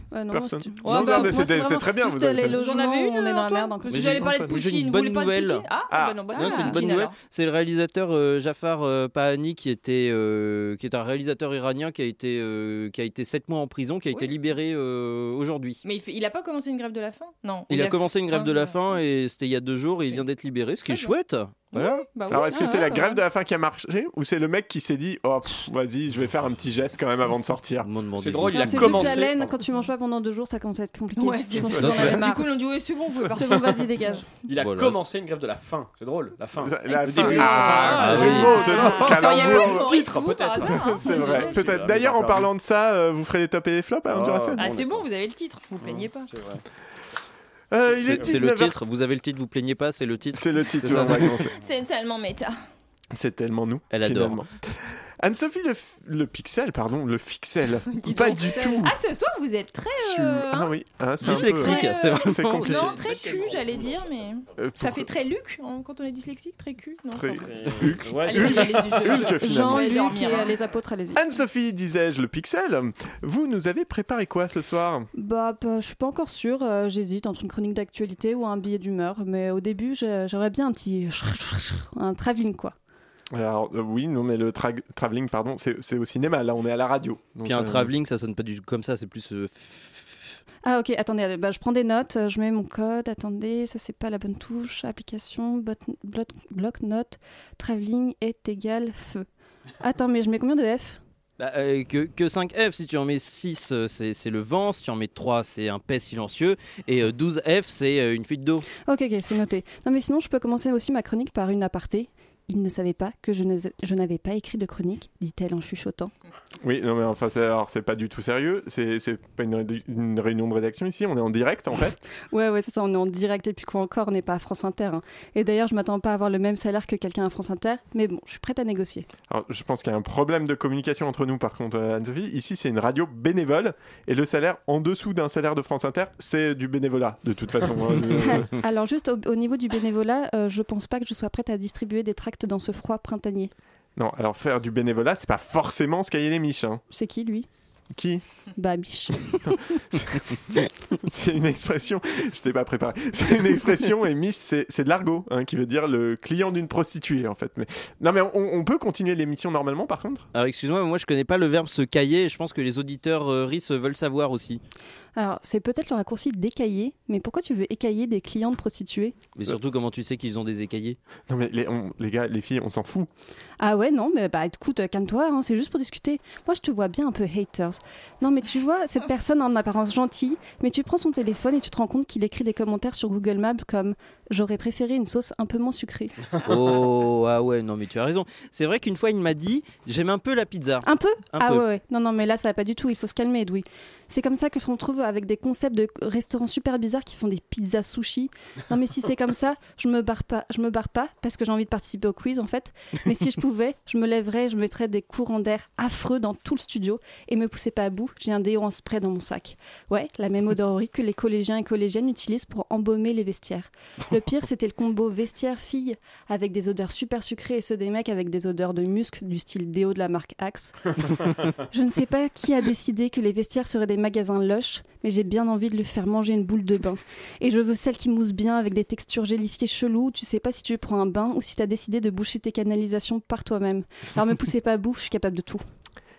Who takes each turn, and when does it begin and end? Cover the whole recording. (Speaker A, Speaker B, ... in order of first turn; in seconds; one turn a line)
Speaker A: 0.1-4.2
Speaker B: 0.3-2.6
Speaker C: 0.8-1.5
Speaker C: 2.4-7.1
Speaker D: 3.9-5.6
Speaker B: 4.2-4.5
Speaker B: 5.9-6.3
Speaker D: 6.3-15.8
Speaker C: 15.8-18.8
Speaker D: 17.7-22.1
Speaker C: 20.9-21.1
Speaker C: 21.7-23.2
Speaker B: 22.3-27.9
Speaker A: 22.5-22.9
Speaker D: 27.8-29.3
Speaker E: 28.1-29.5
Speaker A: 28.5-32.4
Speaker C: 31.2-34.2
Speaker D: 31.7-32.1
Speaker A: 33.3-34.3
Speaker E: 34.4-42.5
Speaker D: 34.5-35.0
Speaker B: 36.6-40.0
Speaker C: 36.8-41.7
Speaker D: 37.9-38.8
Speaker B: 40.6-44.6
Speaker E: 44.1-45.0
Speaker C: 44.6-46.3
Speaker E: 45.8-46.6
Speaker B: 47.7-48.8
Speaker E: 48.0-48.3
Speaker D: 48.1-51.5
Speaker B: 50.3-51.5
Speaker C: 51.6-52.5
Speaker B: 53.1-58.9
Speaker D: 53.9-54.4
Speaker C: 57.9-60.7
Speaker B: 60.0-63.1
Speaker D: 61.2-63.0
Speaker C: 61.2-67.7
Speaker E: 62.9-64.0
Speaker B: 64.6-65.1
Speaker B: 67.1-69.9
Speaker E: 67.3-69.2
Speaker C: 68.2-70.5
Speaker A: 69.3-71.2
Speaker B: 71.1-75.1
Speaker A: 75.1-82.7
Speaker B: 83.3-87.9
Speaker D: 87.4-90.4
Speaker A: 90.6-99.2
Speaker A: 99.8-101.0
Speaker D: 101.4-108.7
Speaker A: 108.8-116.1
Speaker B: 116.6-122.0
Speaker A: 122.3-129.1
Speaker B: 129.3-138.5
Speaker A: 138.2-143.5
Speaker B: 143.9-146.8
Speaker A: 146.9-147.5
Speaker B: 147.9-148.2
Speaker A: 148.6-149.8
Speaker B: 149.5-160.3
Speaker D: 160.3-164.6
Speaker A: 165.2-169.2
Speaker D: 169.3-171.0
Speaker B: 171.3-173.1
Speaker A: 173.6-186.1
Speaker D: 186.4-191.6
Speaker A: 190.8-235.6